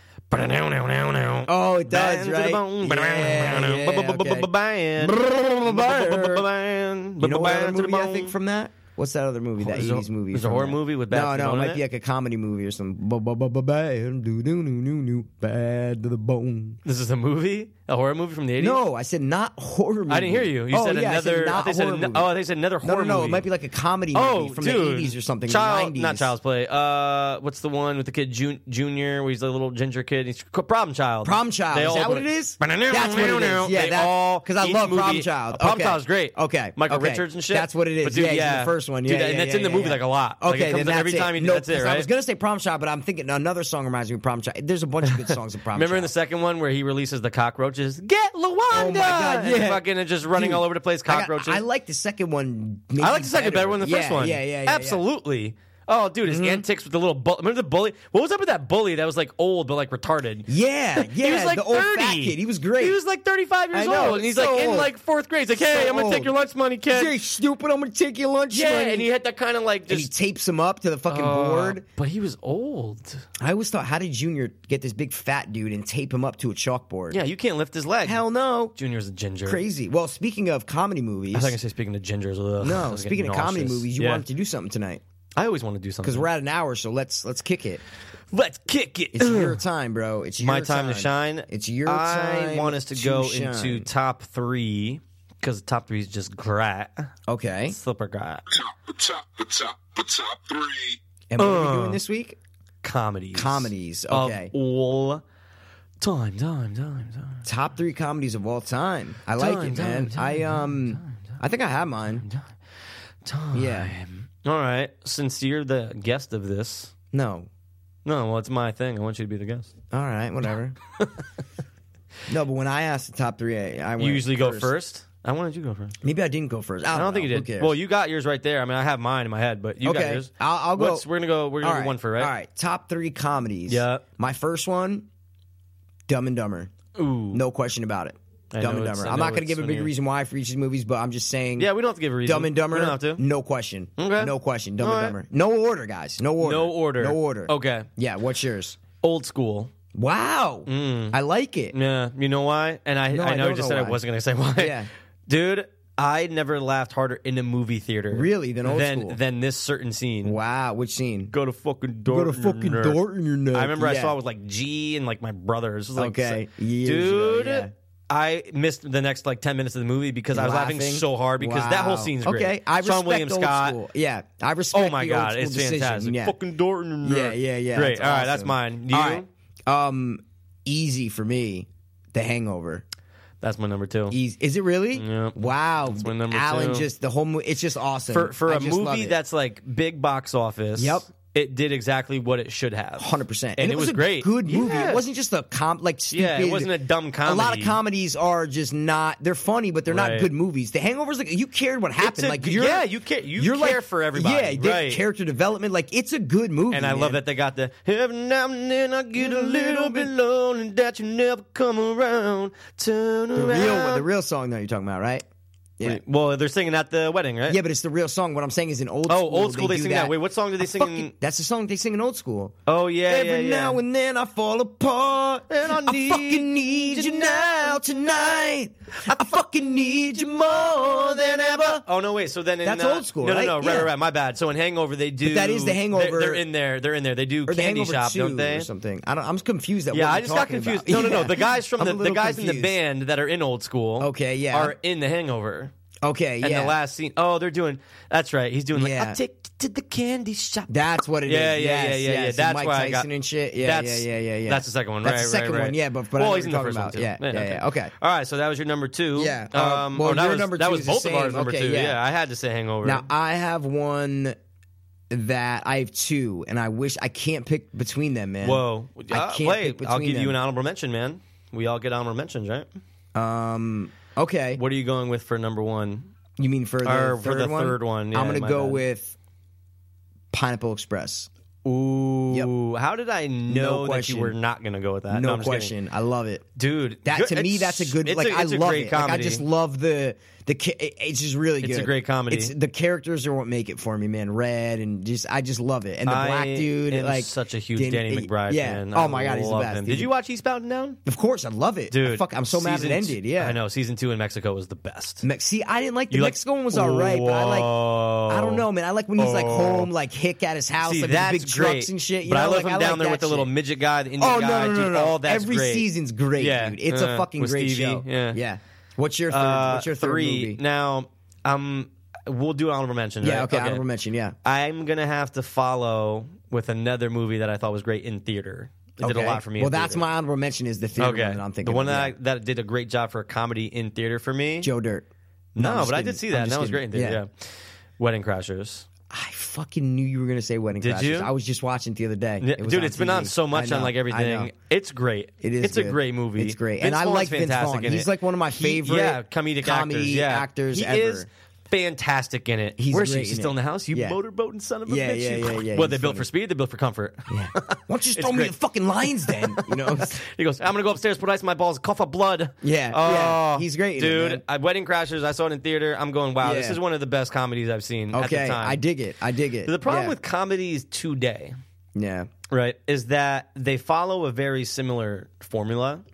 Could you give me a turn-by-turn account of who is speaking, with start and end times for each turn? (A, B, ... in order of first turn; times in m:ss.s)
0:00.3-0:08.4 A
0:01.5-0:06.5 B
0:07.2-0:16.8 B
0:09.6-0:11.8 A
0:16.8-0:18.8 A
0:18.6-0:26.3 B
0:20.1-0:23.5 A
0:24.1-0:42.1 A
0:31.2-0:46.1 B
0:45.0-0:51.6 A
0:48.7-0:55.0 B
0:53.0-1:07.2 A
0:56.3-0:56.6 B
1:00.5-1:03.0 B
1:03.7-1:04.9 B
1:05.6-1:06.3 B
1:06.9-1:09.1 B
1:08.5-1:10.1 A
1:09.9-1:11.8 B
1:11.1-1:13.2 A
1:13.4-1:17.2 B
1:17.1-1:19.6 A
1:18.0-1:18.8 B
1:19.4-1:21.6 B
1:21.3-1:24.2 A
1:22.6-1:25.0 B
1:25.4-1:26.3 A
1:26.0-1:27.8 B
1:28.3-1:29.6 A
1:29.1-1:33.9 B
1:30.4-1:37.1 A
1:37.3-1:37.8 B
1:37.7-1:38.4 A
1:38.6-1:41.0 C
1:41.3-1:42.4 B
1:41.4-1:42.0 A
1:42.8-1:45.2 A
1:43.3-1:44.5 B
1:46.0-1:47.5 A
1:47.4-1:52.2 B
1:49.4-1:51.4 A
1:52.2-1:52.6 A
1:53.2-1:56.9 A
1:53.5-1:53.9 B
1:57.1-1:57.5 B
1:58.0-1:59.7 A
1:59.9-2:00.8 B
2:02.3-2:04.7 B
2:04.0-2:06.0 A
2:06.0-2:07.8 B
2:06.9-2:12.3 A
2:09.8-2:11.1 B
2:11.6-2:15.1 B
2:13.7-2:14.0 A
2:16.1-2:16.7 B
2:17.0-2:17.4 A
2:17.3-2:21.7 B
2:18.5-2:19.9 A
2:21.6-2:23.2 A
2:22.2-2:28.8 B
2:24.0-2:25.2 A
2:26.4-2:27.9 A
2:29.0-2:29.7 A
2:29.9-2:31.7 B
2:30.7-2:31.2 A
2:31.7-2:40.4 A
2:33.1-2:34.0 B
2:34.6-2:34.9 B
2:38.1-2:39.2 B
2:40.2-2:41.3 B
2:41.3-2:43.0 A
2:42.1-2:44.1 B
2:43.5-2:53.8 A
2:46.0-2:47.7 B
2:50.3-2:56.4 B
2:54.7-2:59.3 A
2:57.0-3:02.8 B
3:03.4-3:04.2 A
3:04.1-3:09.2 B
3:04.9-3:06.9 A
3:08.1-3:15.0 A
3:10.8-3:11.1 B
3:13.0-3:16.7 B
3:16.1-3:17.8 A
3:17.2-3:22.9 B
3:19.9-3:20.3 A
3:22.0-3:25.0 A
3:23.4-3:27.2 B
3:26.7-3:34.1 A
3:29.2-3:30.1 B
3:33.4-3:35.2 B
3:35.8-3:37.6 A
3:37.5-3:42.6 B
3:39.1-3:41.1 A
3:42.7-3:43.8 A
3:43.1-3:51.8 B
3:45.5-3:47.5 A
3:51.0-3:58.7 A
3:52.6-3:53.9 B
3:55.2-3:56.5 B
3:57.5-4:02.8 B
3:59.9-4:05.7 A
4:04.0-4:04.8 B
4:06.0-4:06.8 B
4:06.4-4:13.1 A
4:08.8-4:09.2 B
4:10.7-4:17.9 B
4:13.6-4:23.1 A
4:19.2-4:22.0 B
4:22.8-4:24.4 B
4:25.1-4:30.4 B
4:28.4-4:32.7 A
4:33.2-4:34.6 B
4:34.6-4:36.1 A
4:36.4-4:39.2 B
4:36.8-4:38.8 A
4:40.3-4:41.3 B
4:41.6-4:45.7 A
4:43.5-4:44.4 B
4:45.1-4:46.4 B
4:46.6-4:49.4 A
4:47.0-5:00.1 B
4:51.6-4:52.5 A
4:56.1-5:01.0 A
5:01.1-5:03.6 B
5:01.9-5:05.3 A
5:05.2-5:07.7 B
5:06.1-5:09.9 A
5:08.3-5:13.5 B
5:10.8-5:18.4 A
5:14.2-5:20.6 B
5:19.3-5:23.8 A
5:23.2-5:24.4 B
5:24.4-5:30.0 A
5:29.0-5:32.1 B
5:31.0-5:34.7 A
5:34.6-5:37.2 B
5:35.6-5:37.5 A
5:38.0-5:38.9 A
5:39.1-5:44.5 B
5:40.8-5:41.3 A
5:42.4-6:08.8 A
5:45.4-5:51.3 B
5:52.8-5:54.2 B
5:54.9-5:56.3 B
5:57.3-6:00.2 B
6:02.6-6:04.4 B
6:06.4-6:06.8 B
6:08.1-6:10.2 B
6:09.6-6:11.6 A
6:12.0-6:12.3 B
6:12.5-6:16.0 A